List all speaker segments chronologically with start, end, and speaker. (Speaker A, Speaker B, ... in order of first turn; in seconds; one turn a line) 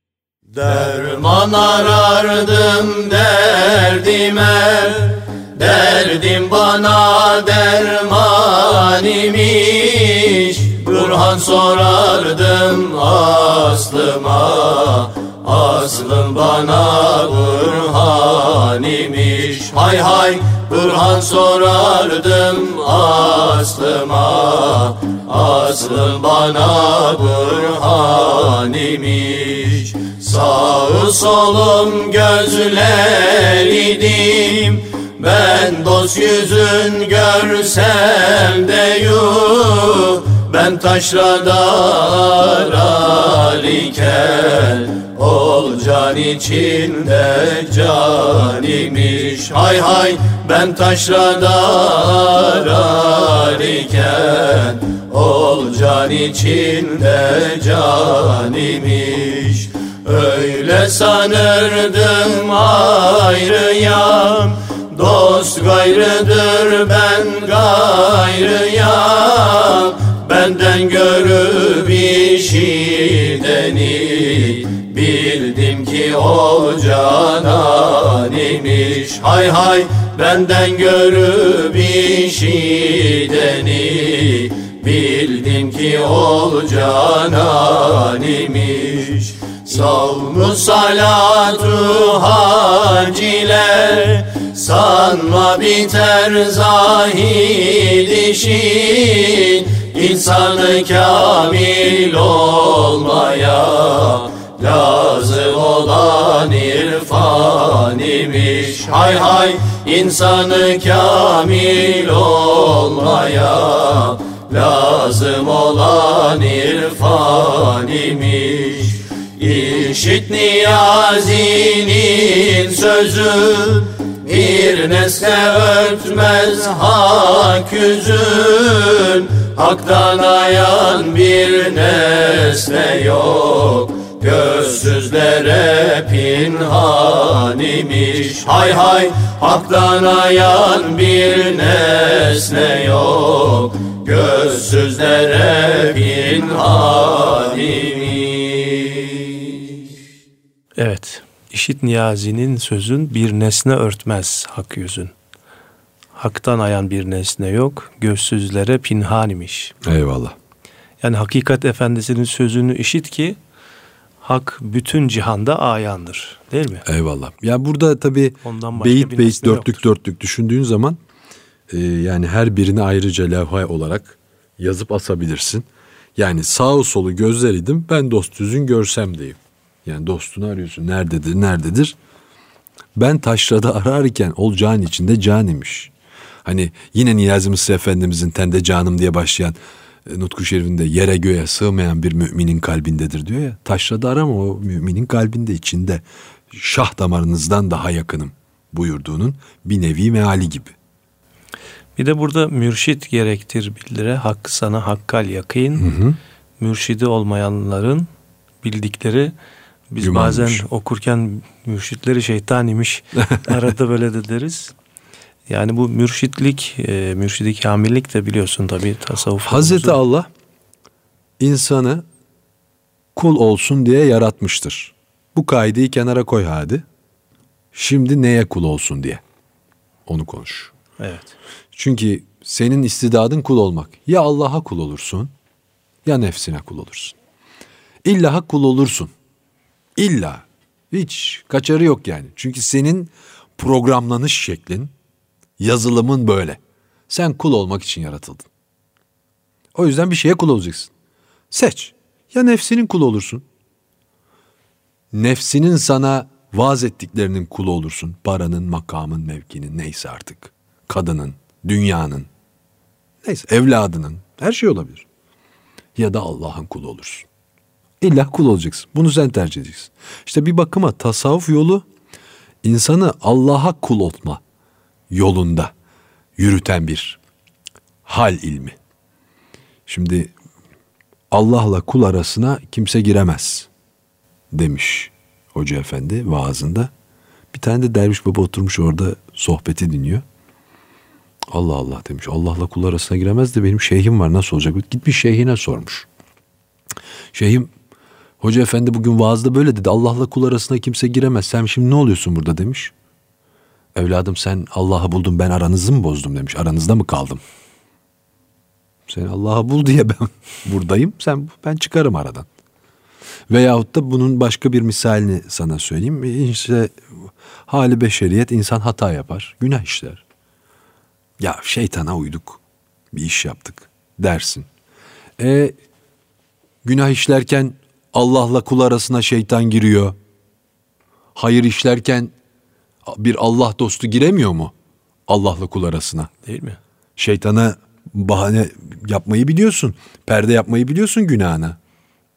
Speaker A: 0.5-149.6
Speaker B: 150.8-155.1
Speaker B: 156.2-159.8
Speaker C: 159.8-160.4
Speaker B: 161.0-163.4
Speaker B: 164.2-166.8
Speaker C: 166.9-171.0
Speaker B: 168.4-169.8
Speaker C: 171.7-182.0
Speaker C: 183.0-185.9
Speaker C: 186.4-200.8
Speaker B: 202.0-205.9
Speaker C: 205.8-206.2
Speaker B: 206.6-208.1
Speaker B: 208.6-209.3
Speaker B: 209.9-214.8
Speaker C: 210.0-210.7
Speaker B: 215.5-220.0
Speaker C: 219.4-220.3
Speaker C: 221.4-222.1
Speaker C: 223.2-226.8
Speaker C: 227.7-229.2
Speaker C: 230.1-230.7
Speaker B: 231.0-231.3
Speaker C: 231.7-235.3
Speaker C: 236.1-237.2
Speaker C: 238.0-239.1
Speaker C: 240.0-244.9
Speaker C: 245.6-248.5
Speaker C: 249.8-250.9
Speaker C: 251.5-253.4
Speaker C: 255.1-262.3
Speaker C: 263.2-265.1
Speaker C: 266.0-267.3
Speaker C: 268.0-271.9
Speaker C: 272.6-274.4
Speaker C: 275.1-275.7
Speaker C: 276.4-277.2
Speaker C: 278.1-278.8
Speaker C: 279.9-280.3
Speaker C: 281.3-283.7
Speaker C: 284.5-286.9
Speaker C: 287.5-290.2
Speaker C: 291.5-296.1
Speaker C: 297.3-297.7
Speaker C: 298.4-302.9
Speaker C: 303.9-307.4
Speaker C: 309.1-312.5
Speaker C: 313.5-317.0
Speaker C: 317.7-320.2
Speaker C: 321.4-322.6
Speaker C: 323.1-324.7
Speaker C: 325.4-325.8
Speaker C: 326.8-330.2
Speaker C: 331.4-332.3
Speaker C: 333.1-334.7
Speaker C: 335.3-336.3
Speaker B: 336.4-336.8
Speaker C: 337.2-341.8